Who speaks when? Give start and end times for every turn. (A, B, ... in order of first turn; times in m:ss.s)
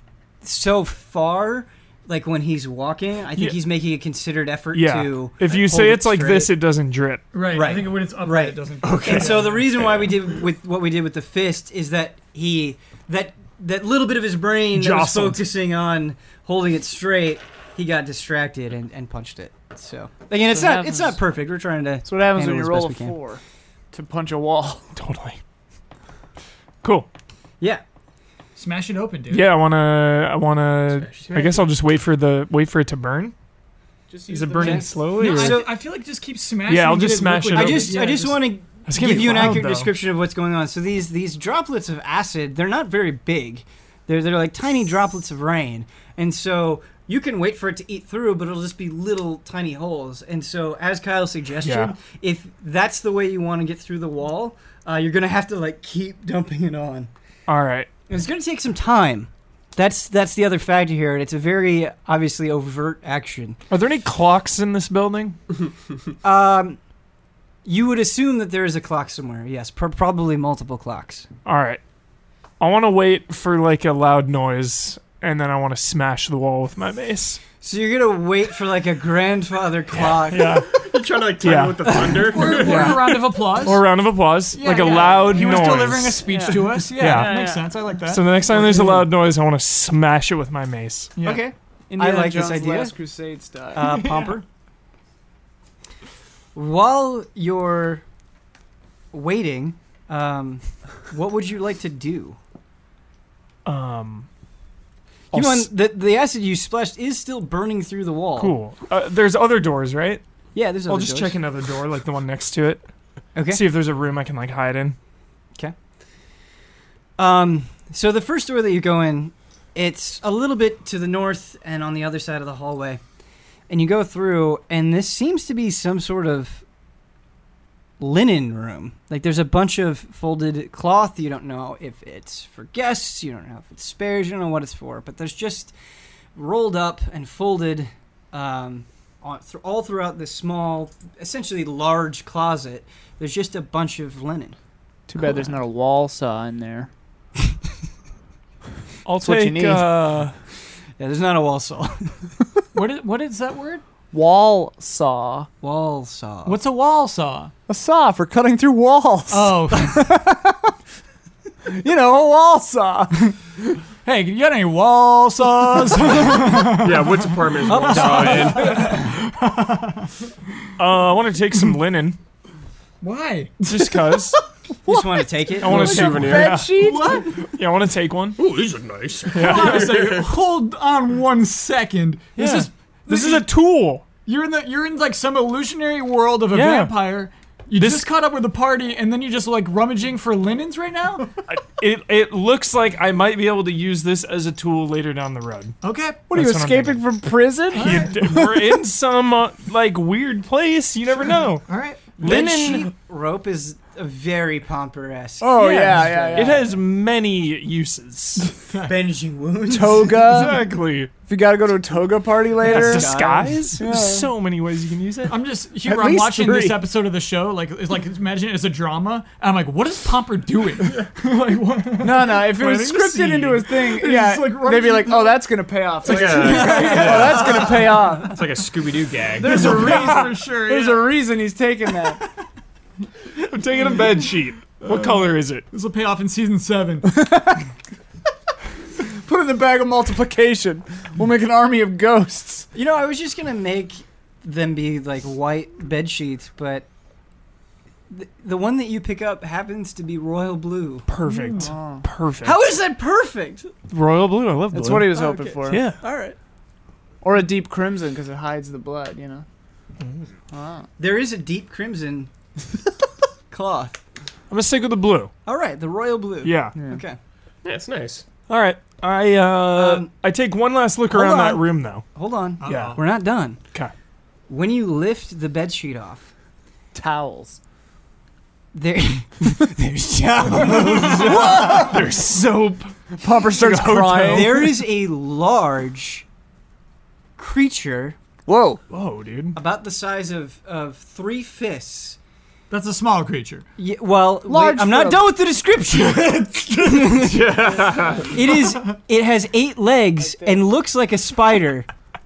0:00.4-0:06.5 A
0:04.7-0:07.2 B
0:07.3-0:09.6 C
0:07.5-0:23.2 A
0:08.8-0:10.1 D
0:14.7-0:15.4 B
0:20.5-0:21.2 E
0:22.0-0:23.4 E
0:23.9-0:24.9 E
0:24.9-0:25.4 B
0:26.8-0:27.1 B
0:28.6-0:29.5 C
0:29.3-0:33.3 B
0:30.9-0:31.4 D
0:34.1-0:35.0 E
0:34.3-0:35.6 B
0:34.6-0:35.7 A
0:34.6-0:38.5 C
0:36.7-0:37.9 B
0:37.5-0:57.1 A
0:38.9-0:39.9 B
0:51.6-0:51.9 B
0:57.5-0:57.9 B
0:58.1-1:03.6 A
1:03.7-1:05.4 B
1:06.2-1:06.8 A
1:07.6-1:11.3 A
1:11.4-1:11.8 B
1:12.6-1:17.4 B
1:17.6-1:20.7 A
1:19.9-1:20.8 B
1:20.8-1:23.0 D
1:21.4-1:26.2 B
1:22.3-1:23.9 C
1:24.5-1:28.9 C
1:24.6-1:27.7 E
1:26.9-1:27.4 B
1:28.1-1:31.1 B
1:28.6-1:29.0 E
1:31.2-1:31.5 C
1:31.2-1:34.1 E
1:32.0-1:33.0 A
1:33.7-1:34.4 A
1:36.6-1:38.0 A
1:39.1-1:42.4 A
1:43.6-1:44.3 B
1:45.3-1:45.7 B
1:45.3-1:48.6 A
1:48.4-1:50.2 B
1:50.6-1:51.4 A
1:50.9-1:52.8 B
1:53.4-1:53.6 A
1:53.5-1:55.0 B
1:57.2-2:03.0 A
2:03.7-2:06.6 A
2:08.0-2:15.7 A
2:16.4-2:24.6 A
2:25.1-2:26.9 E
2:29.0-2:30.4 B
2:29.2-2:29.9 E
2:31.0-2:32.3 A
2:32.7-2:33.8 C
2:34.1-2:35.5 E
2:35.6-2:36.6 A
2:36.4-2:37.5 C
2:37.7-2:40.7 E
2:39.3-2:40.1 C
2:41.7-2:43.3 E
2:44.0-2:50.1 C
2:46.6-2:48.9 D
2:47.6-2:49.1 A
2:50.8-2:52.2 B
2:53.0-2:53.6 C
2:53.7-2:54.2 E
2:53.7-2:54.4 B
2:54.8-2:56.0 A
2:54.8-2:57.3 E
2:55.6-2:58.4 B
2:55.6-2:56.7 D
2:56.8-2:57.2 C
2:58.4-3:00.3 D
2:59.3-2:59.9 B
2:59.3-3:03.5 C
3:02.4-3:04.0 B
3:04.2-3:11.3 C
3:06.5-3:07.0 B
3:07.8-3:08.1 B
3:11.4-3:15.8 B
3:15.8-3:16.3 C
3:16.3-3:18.7 E
3:16.3-3:17.0 B
3:17.7-3:21.7 B
3:17.7-3:18.4 C
3:21.7-3:22.1 C
3:22.2-3:22.9 B
3:22.2-3:26.4 A
3:25.4-3:26.7 E
3:25.6-3:26.6 C
3:26.3-3:28.5 B
3:28.7-3:28.9 C
3:28.8-3:30.3 A
3:29.7-3:34.3 E
3:30.3-3:31.1 B
3:32.6-3:33.6 A
3:32.6-3:35.3 B
3:35.3-3:42.4 C
3:35.8-3:36.8 E
3:42.0-3:48.5 E
3:42.3-3:43.8 B
3:43.8-3:45.4 C
3:46.0-3:49.8 D
3:46.1-3:48.0 C
3:49.4-3:52.2 E
3:49.4-3:51.1 C
3:49.6-3:50.4 B
3:53.3-3:55.6 B
3:55.7-3:57.2 C
3:57.0-3:57.7 E
3:59.0-4:02.7 E
4:02.7-4:06.8 A
4:08.1-4:11.1 A
4:11.1-4:12.6 B
4:11.3-4:12.0 E
4:12.4-4:13.7 A
4:13.9-4:16.0 B
4:14.7-4:15.8 E
4:15.1-4:16.4 A
4:17.2-4:19.4 E
4:20.0-4:20.3 B
4:20.5-4:20.9 E
4:21.0-4:22.3 A
4:23.5-4:24.0 A
4:24.5-4:25.3 B
4:25.4-4:27.2 A
4:26.4-4:26.8 B
4:27.6-4:28.2 D
4:28.5-4:32.0 B
4:29.7-4:30.1 A
4:31.1-4:33.6 A
4:32.6-4:33.0 C
4:32.6-4:33.0 B
4:34.5-4:36.3 A
4:36.9-4:37.6 E
4:38.7-4:42.0 A
4:41.0-4:44.6 B
4:43.2-4:44.7 E
4:44.3-4:46.3 A
4:47.4-4:48.2 A
4:48.4-4:48.8 E
4:48.9-4:49.6 B
4:49.6-4:52.2 A
4:52.7-4:53.7 C
4:53.8-5:01.9 A
4:54.4-4:55.2 E
4:57.2-4:58.3 D
5:00.2-5:00.6 E